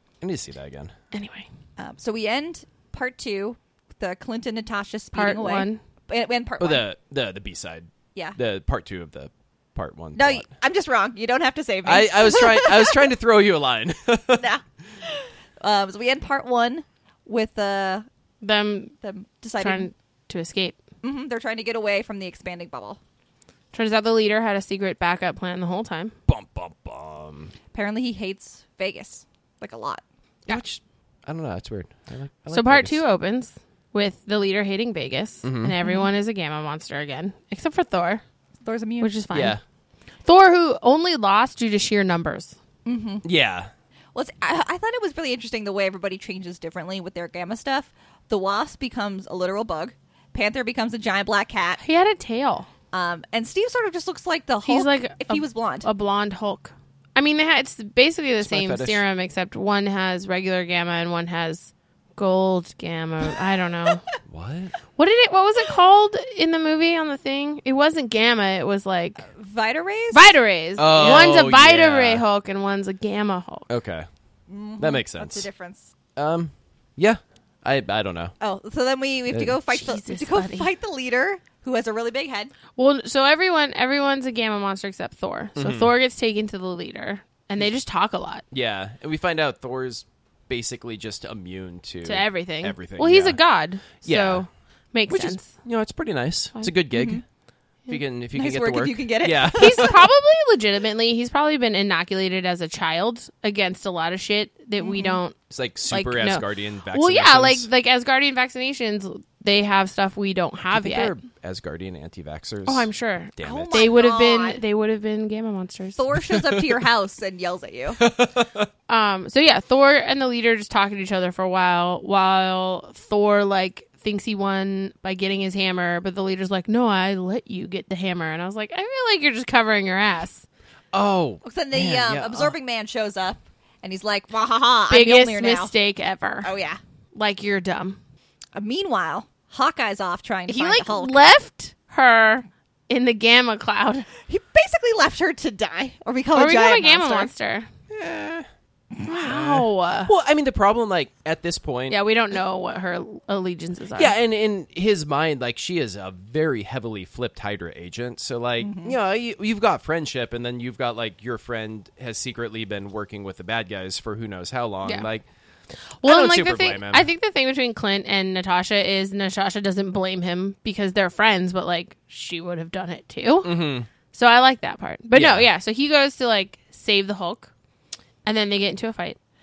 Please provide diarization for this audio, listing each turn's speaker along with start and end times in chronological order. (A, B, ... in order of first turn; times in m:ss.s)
0:00.2-0:00.9 A
0:01.1-0:01.5 B
0:01.8-0:06.8 C
0:05.1-0:05.8 B
0:06.6-0:10.4 A
0:10.2-0:13.0 C
0:11.8-0:14.5 A
0:14.4-0:18.0 C
0:18.4-0:18.9 B
0:19.0-0:19.9 C
0:19.6-0:20.8 B
0:21.0-0:23.0 C
0:23.7-0:26.1 B
0:26.3-0:27.5 A
0:27.7-0:30.0 C
0:30.5-0:33.0 A
0:32.5-0:38.2 B
0:35.4-0:35.7 A
0:35.8-0:36.1 C
0:38.6-0:39.1 C
0:39.0-0:39.6 B
0:39.3-0:39.6 A
0:40.2-0:42.6 B
0:42.8-0:43.2 C
0:43.2-0:43.7 A
0:44.1-0:51.8 C
0:51.8-0:52.7 B
0:52.9-0:55.9 C
0:54.6-1:04.0 B
0:58.4-0:59.0 A
1:04.3-1:04.7 A
1:05.0-1:09.3 B
1:09.3-1:11.4 C
1:10.1-1:13.7 B
1:10.8-1:12.2 A
1:13.7-1:14.1 A
1:14.5-1:15.9 C
1:14.8-1:15.5 A
1:16.2-1:18.3 A
1:18.4-1:22.5 C
1:19.7-1:20.7 B
1:22.8-1:28.4 B
1:25.6-1:25.9 A
1:28.5-1:33.4 A
1:32.0-1:35.5 B
1:34.0-1:34.4 A
1:35.1-1:37.2 A
1:36.9-1:37.2 C
1:37.9-1:39.9 A
1:38.3-1:40.0 C
1:39.5-1:45.4 B
1:44.8-1:45.2 C
1:45.5-1:47.7 A
1:45.9-1:51.1 B
1:50.7-1:54.0 A
1:52.6-1:56.0 B
1:53.4-1:54.6 C
1:56.0-1:58.0 C
1:56.3-1:56.8 A
1:58.0-1:58.7 A
1:58.9-2:10.4 B
2:10.9-2:12.5 A
2:11.4-2:15.7 C
2:14.9-2:16.5 B
2:16.4-2:16.8 C
2:17.1-2:18.0 B
2:18.5-2:21.2 C
2:20.5-2:24.1 B
2:24.3-2:27.3 C
2:26.3-2:27.7 B
2:27.9-2:28.5 A
2:29.0-2:30.1 B
2:29.2-2:32.0 A
2:31.9-2:34.1 B
2:33.9-2:45.2 A
2:38.6-2:39.0 C
2:46.0-2:53.5 B
2:46.0-2:47.1 A
2:53.4-2:53.9 A
2:54.1-2:57.5 B
2:55.1-2:55.4 A
2:58.2-2:59.2 B